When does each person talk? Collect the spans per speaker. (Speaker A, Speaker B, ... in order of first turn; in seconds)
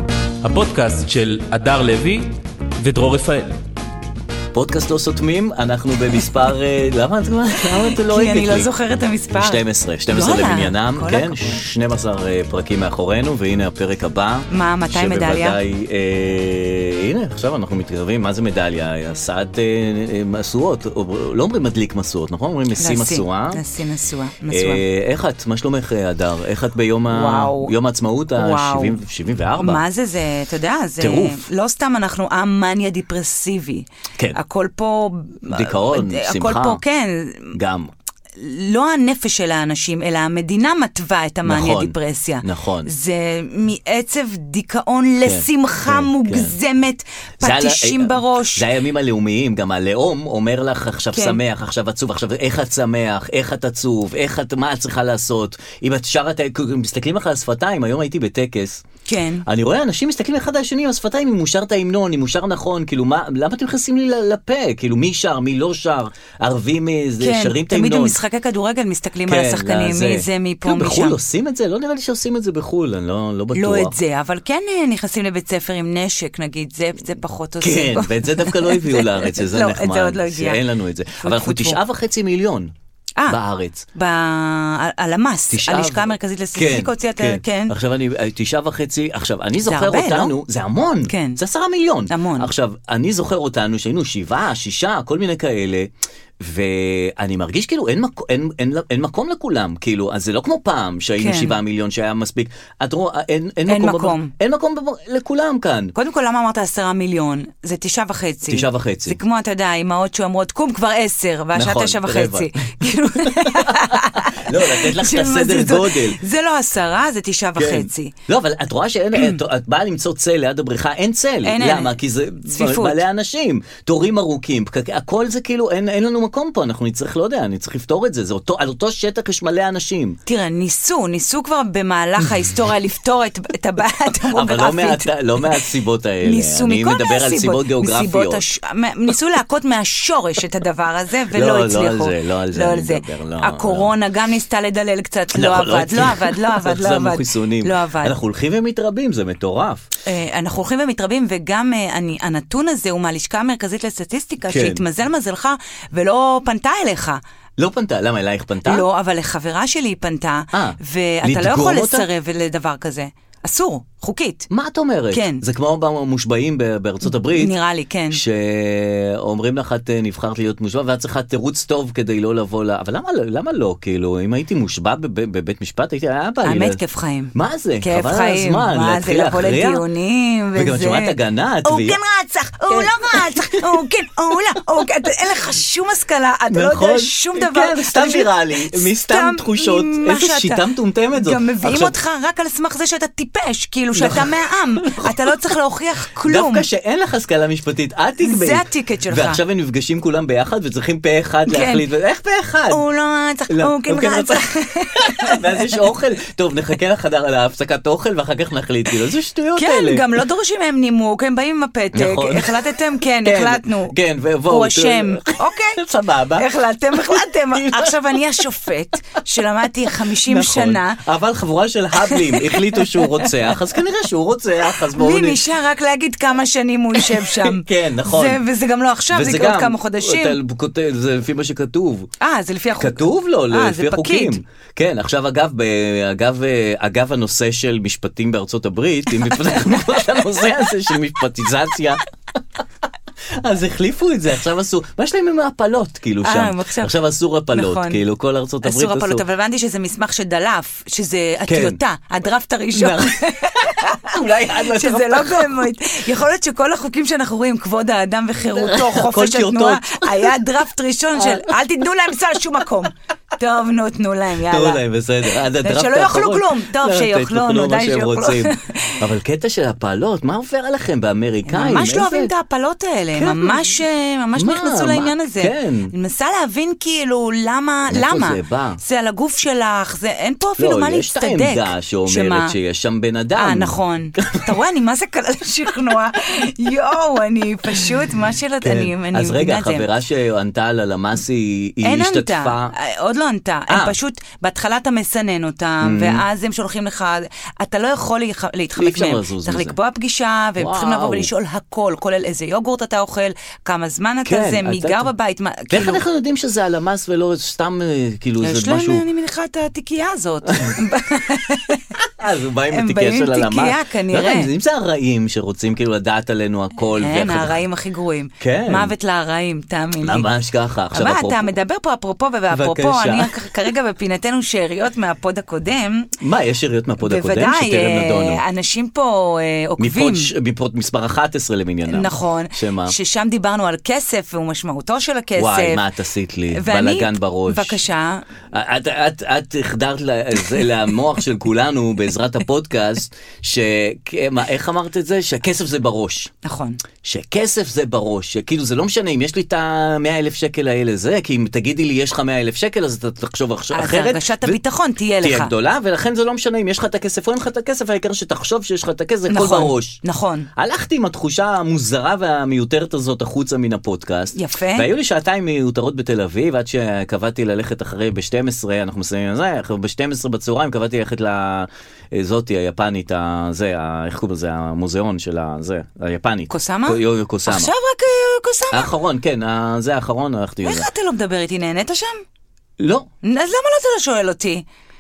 Speaker A: 0.4-3.6
Speaker B: 4.5-8.7, 9.4-23.6, 24.5-29.8, 31.0-31.4, 35.5-36.8, 37.5-37.9, 41.5-42.9, 45.2-46.6, 47.4-58.8, 59.5-68.2, 69.3-74.0, 77.6-82.7, 83.3-83.9, 85.5-105.9, 108.5-109.2, 111.5-116.2, 117.6-130.2, 134.3-138.4, 141.3-143.9, 145.3-149.9, 154.5-154.8, 157.6-158.8, 160.5-162.1, 164.5-167.5, 168.1-176.8, 177.3-179.8, 180.6-182.0, 182.7-183.8, 186.5-192.0, 193.9-195.4, 196.3-202.8, 203.5-210.1, 211.9-212.7, 213.2-218.4, 220.1-225.4, 226.9-228.4, 229.1-232.1, 232.8-242.0, 243.4-249.2, 251.5-251.8, 252.7-255.7, 258.6-260.3, 261.2-261.5, 264.5-272.3, 273.1-273.8, 274.4-275.9, 277.9-278.8, 280.6-284.5, 288.6-292.7, 293.7-293.9, 295.8-296.2, 298.8-299.8, 300.6-301.3, 304.3-305.1, 305.7-309.0, 310.5-310.8, 312.0-317.6, 318.4-318.9, 320.0-321.5, 322.5-323.7, 326.2-328.4, 329.8-332.9, 335.4-337.8, 338.5-346.3, 347.0-354.6, 355.2-360.0, 360.6-377.7, 378.7-380.9, 382.8-383.1
Speaker C: 7.9-11.5, 14.5-15.6, 22.8-24.8, 27.1-27.7, 28.4-29.0, 29.6-37.5, 38.4-48.6, 51.1-51.4, 59.0-59.5, 67.2-71.2, 73.5-80.6, 81.2-81.8, 84.0-87.7, 89.6-90.4, 91.1-91.4, 92.1-92.5, 101.2-101.6, 103.7-104.3, 106.0-118.2, 119.2-119.4, 121.4-123.0, 130.3-135.6, 136.2-148.2, 150.1-157.2, 158.7-164.5, 165.1-165.4, 167.1-168.2, 176.4-196.7, 198.2-199.4, 201.5-201.8, 202.7-205.8, 209.6-213.9, 214.5-215.8, 216.3-221.0, 222.0-223.4, 224.7-230.4, 232.2-234.4, 246.2-246.9, 247.5-248.0, 248.6-264.8, 265.6-269.0, 271.5-282.5, 283.4-289.9, 291.8-306.0, 308.4-311.8, 312.7-314.5, 317.0-320.3, 320.9-326.1, 327.0-330.3, 331.9-335.8, 336.5-338.3, 346.4-346.8, 353.7-355.5, 359.3-360.5, 364.4-364.9, 376.5-378.9, 380.6-382.2, 383.2-384.6